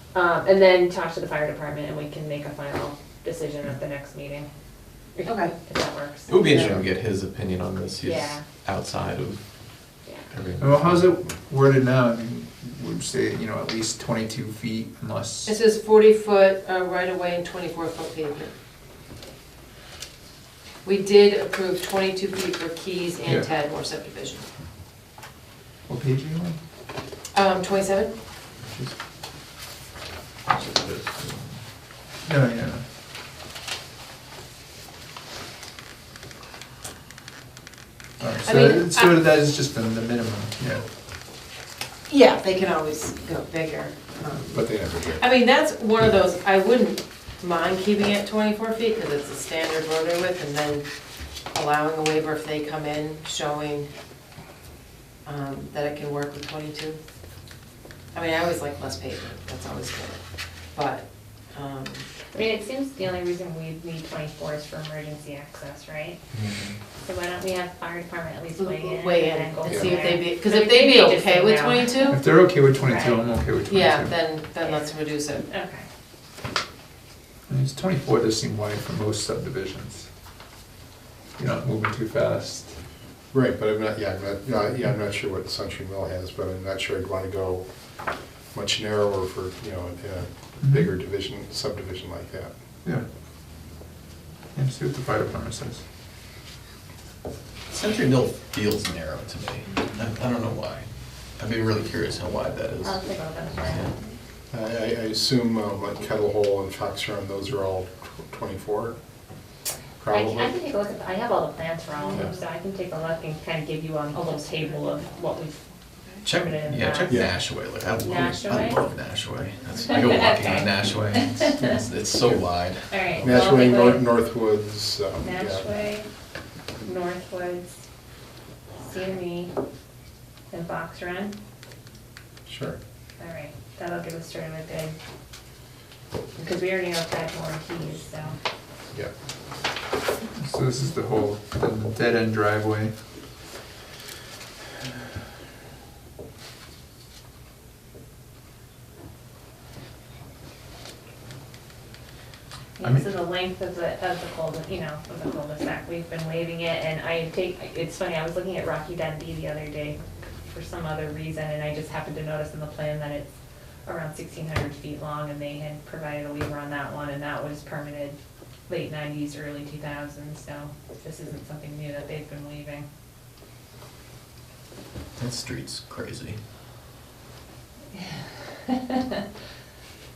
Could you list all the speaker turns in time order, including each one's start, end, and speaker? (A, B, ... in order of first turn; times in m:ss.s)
0:00.1-0:04.5 A
0:05.2-0:06.7 A
0:05.2-0:05.5 B
0:06.3-0:09.4 C
0:06.4-0:06.8 B
0:08.0-0:08.4 A
0:10.3-0:11.1 C
0:10.6-0:15.6 D
0:15.4-0:18.5 B
0:20.8-0:24.4 B
0:23.2-0:23.5 D
0:25.9-0:26.6 D
0:27.3-0:28.2 B
0:30.5-0:31.6 C
0:32.2-0:32.8 D
0:38.2-0:40.8 D
0:38.4-0:39.1 B
0:42.1-0:50.8 B
0:44.6-0:45.2 E
0:51.5-0:53.9 B
0:55.2-0:57.0 B
0:58.1-1:00.2 B
1:00.7-1:02.1 B
1:02.3-1:06.2 A
1:06.3-1:06.7 C
1:07.0-1:12.2 A
1:08.6-1:12.2 B
1:09.7-1:10.0 E
1:12.1-1:14.1 D
1:12.7-1:13.2 A
1:13.7-1:15.4 B
1:14.6-1:15.8 A
1:17.5-1:20.0 D
1:21.4-1:22.7 D
1:23.3-1:27.6 E
1:28.5-1:32.5 E
1:30.6-1:30.9 D
1:34.5-1:35.8 D
1:37.7-1:43.0 C
1:42.8-1:43.9 A
1:44.5-1:49.0 E
1:50.0-1:50.5 E
1:50.1-1:55.6 A
1:56.2-2:03.4 C
1:56.3-1:57.3 A
1:57.9-1:58.8 A
1:59.9-2:01.7 A
2:02.9-2:04.0 A
2:03.2-2:05.7 E
2:05.2-2:06.1 A
2:06.8-2:07.8 A
2:08.8-2:09.5 A
2:10.5-2:11.4 A
2:12.4-2:12.8 E
2:13.2-2:15.0 A
2:16.4-2:18.4 A
2:20.4-2:22.9 D
2:32.8-2:40.0 A
2:32.8-2:33.1 D
2:40.5-2:43.3 A
2:43.8-2:48.2 A
2:48.7-2:52.8 A
2:55.2-2:56.4 C
2:58.7-2:59.2 A